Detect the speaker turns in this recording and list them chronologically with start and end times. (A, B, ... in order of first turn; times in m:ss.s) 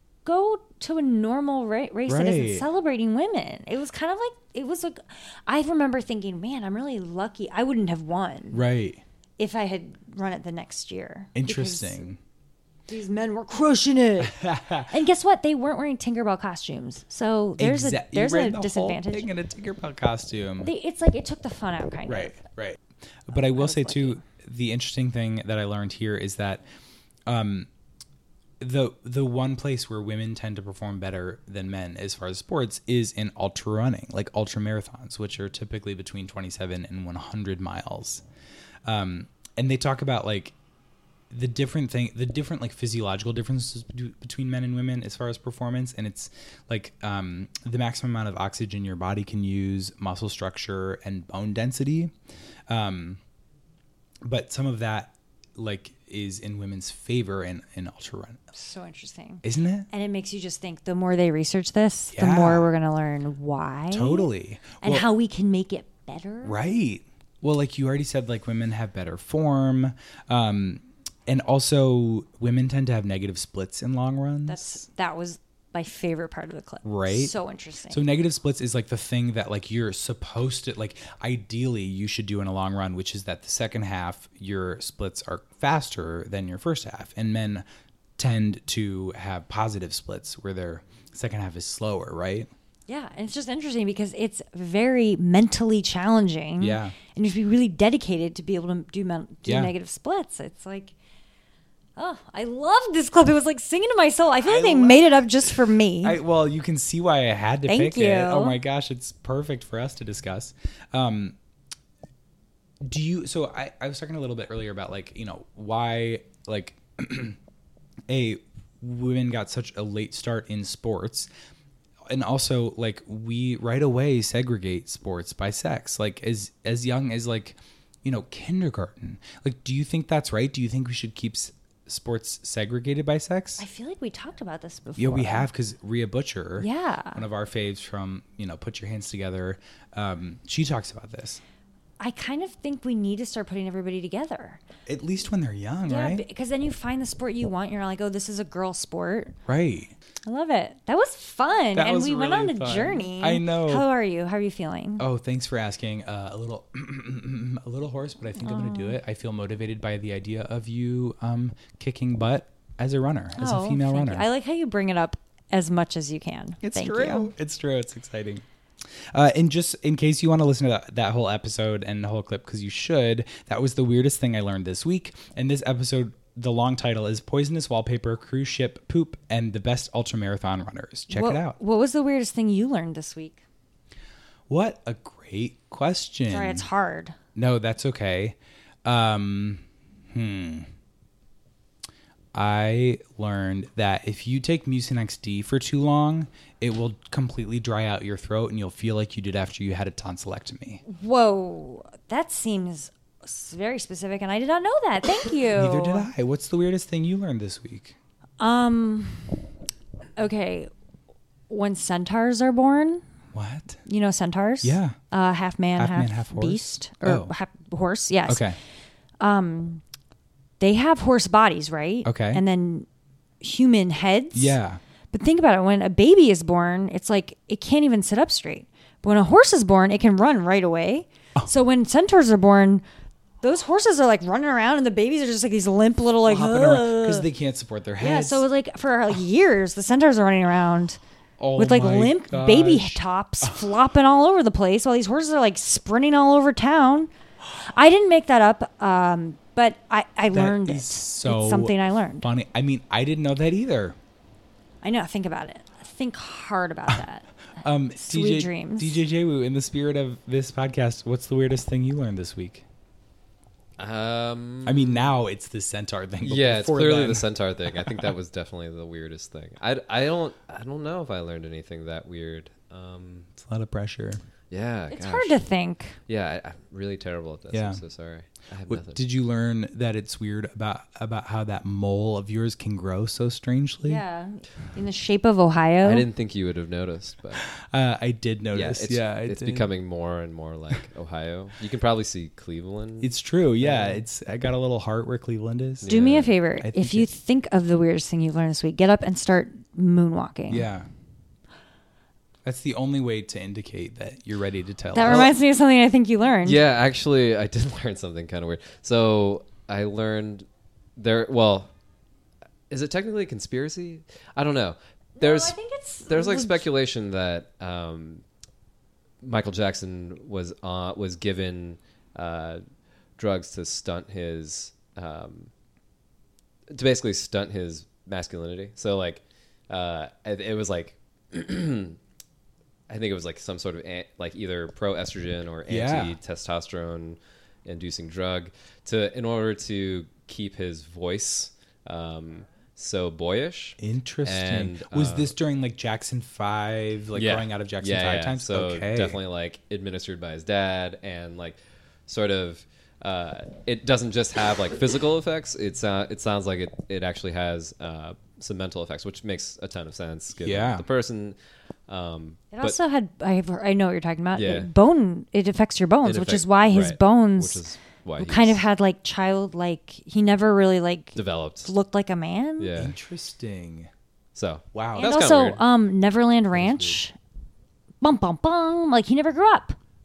0:00.2-0:08.6 A
0:02.1-0:02.7 B
0:08.5-0:09.0 B
0:09.4-0:12.0 A
0:11.4-0:12.2 B
0:12.9-0:19.3 A
0:14.2-0:14.9 B
0:17.6-0:20.7 B
0:20.6-0:22.4 A
0:22.1-0:26.6 B
0:23.3-0:24.2 A
0:27.3-0:27.7 B
0:28.6-0:38.2 B
0:38.9-0:40.5 B
0:41.3-0:52.1 B
0:52.7-0:53.2 B
0:54.2-0:58.4 B
0:58.5-1:04.3 A
0:59.4-0:59.9 B
1:02.1-1:02.7 B
1:03.9-1:05.1 B
1:04.8-1:06.6 A
1:06.4-1:14.8 B
1:14.5-1:18.0 A
1:16.8-1:17.3 B
1:17.9-1:27.6 B
1:28.2-1:32.5 B
1:32.9-1:40.9 A
1:36.6-1:37.0 B
1:39.4-1:39.7 B
1:42.0-1:46.2 A
1:44.4-1:51.4 B
1:47.7-1:48.6 A
1:52.8-1:57.4 B
1:58.1-2:01.3 B
2:02.1-2:13.6 B
2:13.6-2:15.5 A
2:15.0-2:21.4 B
2:16.6-2:17.2 A
2:22.0-2:24.6 A
2:24.9-2:26.2 B
2:25.9-2:29.4 A
2:29.5-2:29.9 B
2:30.3-2:35.0 A
2:31.8-2:33.9 B
2:35.0-2:44.3 B
2:38.4-2:39.0 A
2:43.4-2:47.3 A
2:46.6-2:48.4 B
2:49.1-3:01.6 B
3:01.1-3:03.4 A
3:04.5-3:06.7 B
3:06.3-3:07.2 A
3:07.4-3:10.7 B
3:12.3-3:20.8 B
3:20.9-3:26.1 A
3:25.5-3:28.0 B
3:28.4-3:29.5 A
3:30.2-3:30.7 A
3:31.5-3:33.0 A
3:33.3-3:33.8 B
3:33.9-3:38.5 A
3:34.6-3:35.0 B
3:35.8-3:37.3 B
3:38.3-3:38.6 B
3:39.2-3:39.8 A
3:40.6-3:42.9 A
3:42.0-3:42.4 B
3:43.4-3:44.6 A
3:44.3-3:44.8 B
3:45.1-3:52.8 A
3:53.4-3:57.3 A
3:56.2-3:58.4 B
3:58.0-4:01.0 A
4:01.4-4:03.6 B
4:01.6-4:12.3 A
4:10.3-4:14.0 B
4:14.8-4:17.3 A
4:17.6-4:22.6 B
4:18.0-4:19.0 A
4:23.8-4:25.1 C
4:24.6-4:27.3 B
4:26.2-4:33.3 C
4:27.8-4:28.1 B
4:33.4-4:34.2 B
4:34.5-4:35.5 C
4:34.9-4:36.0 A
4:36.1-4:39.0 C
4:37.5-4:37.8 B
4:38.7-4:44.0 B
4:43.8-4:46.1 A
4:45.8-4:47.4 C
4:47.5-4:49.7 B
4:48.5-4:54.0 C
4:53.0-4:55.9 B
4:55.8-4:56.4 C
4:55.9-5:00.7 A
4:56.6-4:57.1 B
5:00.5-5:00.9 B
5:02.4-5:05.3 B
5:04.9-5:06.6 A
5:05.0-5:05.3 C
5:06.4-5:11.7 C
5:12.7-5:15.6 C
5:15.2-5:16.7 A
5:16.1-5:18.2 C
5:19.2-5:22.6 C
5:23.2-5:25.5 C
5:26.7-5:32.0 C
5:32.9-5:45.3 C
5:35.7-5:36.2 B
5:43.8-5:49.2 B
5:47.2-6:01.4 C
6:00.4-6:00.8 B
6:01.9-6:02.8 C
6:02.5-6:07.6 A
6:04.4-6:04.7 C
6:06.0-6:08.6 C
6:08.2-6:12.7 A
6:11.2-6:11.7 C
6:12.6-6:13.0 C
6:12.8-6:13.9 B
6:14.4-6:15.6 C
6:14.7-6:15.2 B
6:15.0-6:17.2 A
6:16.6-6:17.0 C
6:18.0-6:19.8 A